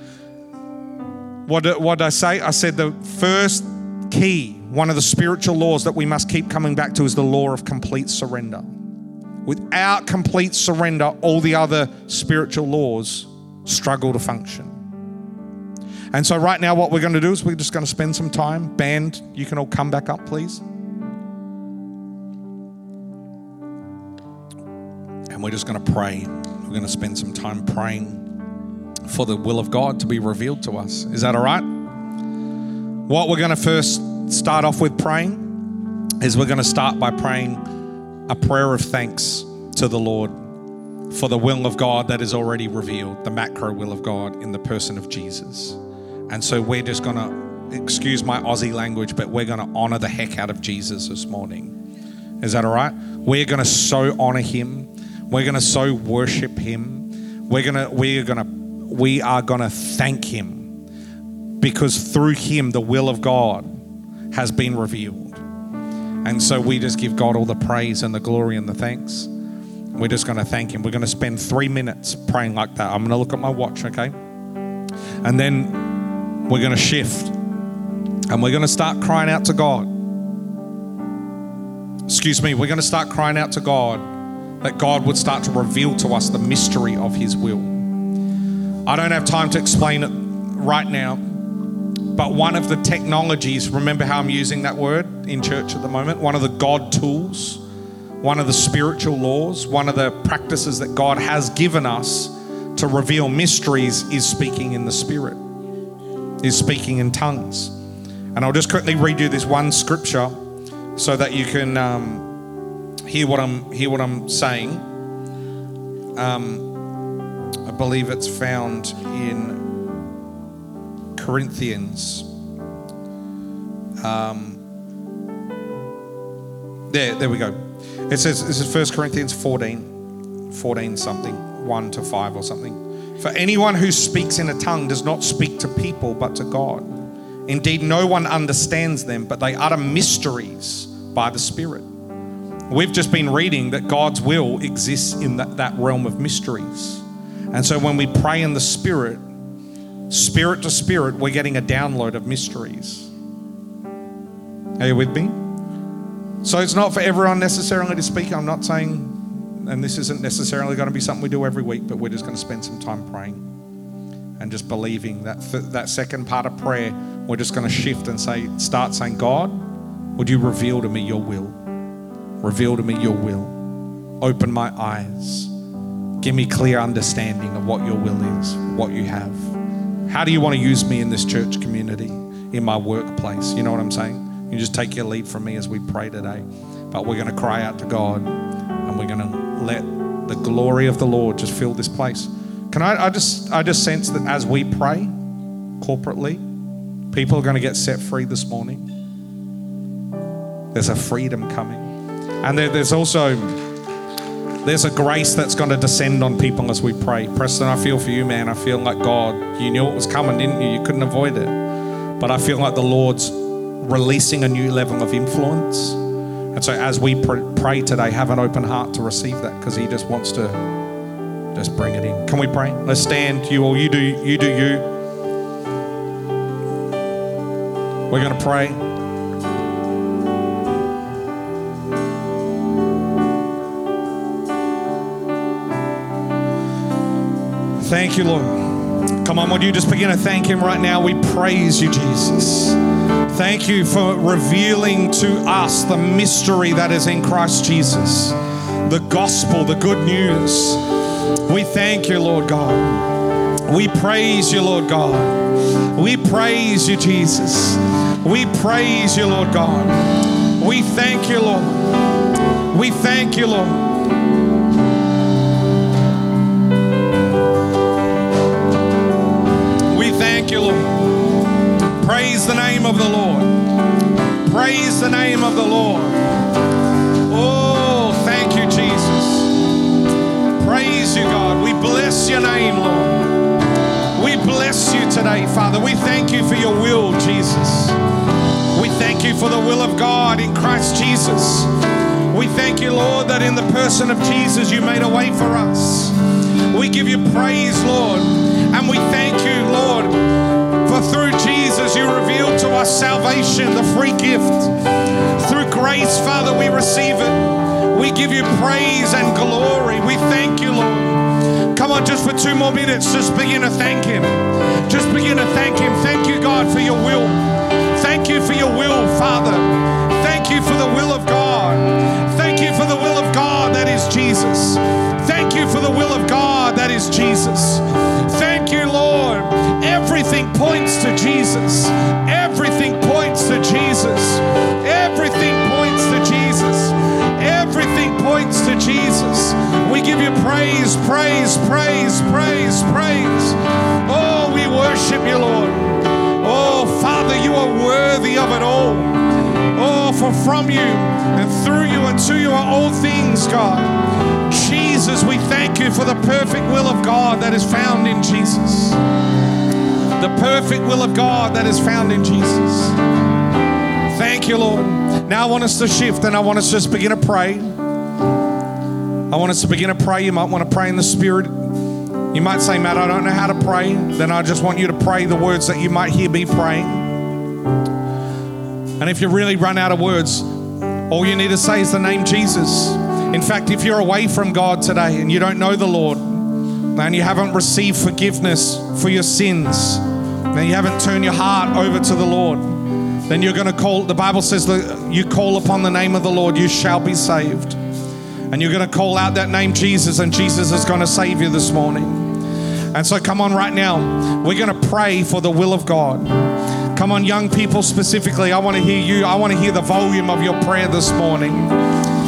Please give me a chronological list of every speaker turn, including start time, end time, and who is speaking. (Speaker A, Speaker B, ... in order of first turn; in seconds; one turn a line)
Speaker A: 1.5-8.7
Speaker A: 9.4-14.8
Speaker A: 16.1-20.6
Speaker A: 25.3-28.2
Speaker A: 29.1-31.7
Speaker A: 33.1-35.5
Speaker A: 36.2-37.6
Speaker A: 38.3-40.3
Speaker A: 41.1-45.8
Speaker A: 46.3-51.7
Speaker A: 52.4-60.7
Speaker A: 61.6-63.7
Speaker A: 64.3-65.4
Speaker A: 66.2-69.3
Speaker A: 70.0-74.1
Speaker A: 75.2-77.3
Speaker A: 78.3-79.9
Speaker A: 82.1-84.0
Speaker A: 84.6-87.8
Speaker A: 88.8-91.3
Speaker A: 92.1-97.6
Speaker A: 98.2-105.4
Speaker A: 106.4-107.7
Speaker A: 108.3-110.3
Speaker A: 111.0-112.3
Speaker A: 113.0-114.8
Speaker A: 116.2-116.7
Speaker A: 117.6-119.7
Speaker A: 121.2-122.3
Speaker A: 124.0-124.6
Speaker A: 126.9-129.9
Speaker A: 130.5-136.9
Speaker A: 137.5-141.8
Speaker A: 142.7-149.2
Speaker A: 150.1-153.1
Speaker A: 154.8-155.4
Speaker A: 156.4-163.4
Speaker A: 164.4-171.6
Speaker A: 172.4-173.5
Speaker A: 174.2-175.5
Speaker A: 176.2-179.5
Speaker A: 180.1-195.1
Speaker A: 195.8-196.4
Speaker A: 197.1-198.9
Speaker A: 200.7-201.9
Speaker A: 202.4-203.6
Speaker A: 204.6-211.6
Speaker A: 212.2-216.0
Speaker A: 216.5-220.6
Speaker A: 221.5-224.9
Speaker A: 228.1-228.8
Speaker A: 237.8-250.8
Speaker A: 251.4-253.1
Speaker A: 253.7-261.9
Speaker A: 262.7-263.9
Speaker A: 269.9-271.1
Speaker A: 272.0-273.6
Speaker A: 274.4-276.2
Speaker A: 277.3-279.6
Speaker A: 280.6-283.3
Speaker A: 284.1-288.0
Speaker A: 288.7-291.7
Speaker A: 292.3-296.2
Speaker A: 296.7-300.3
Speaker A: 300.8-304.7
Speaker A: 305.3-359.0
Speaker A: 360.2-362.9
Speaker A: 364.1-367.7
Speaker A: 369.3-371.7
Speaker A: 372.3-377.2
Speaker A: 379.0-380.5
Speaker A: 381.1-397.8
Speaker A: 398.5-402.4
Speaker A: 402.9-411.8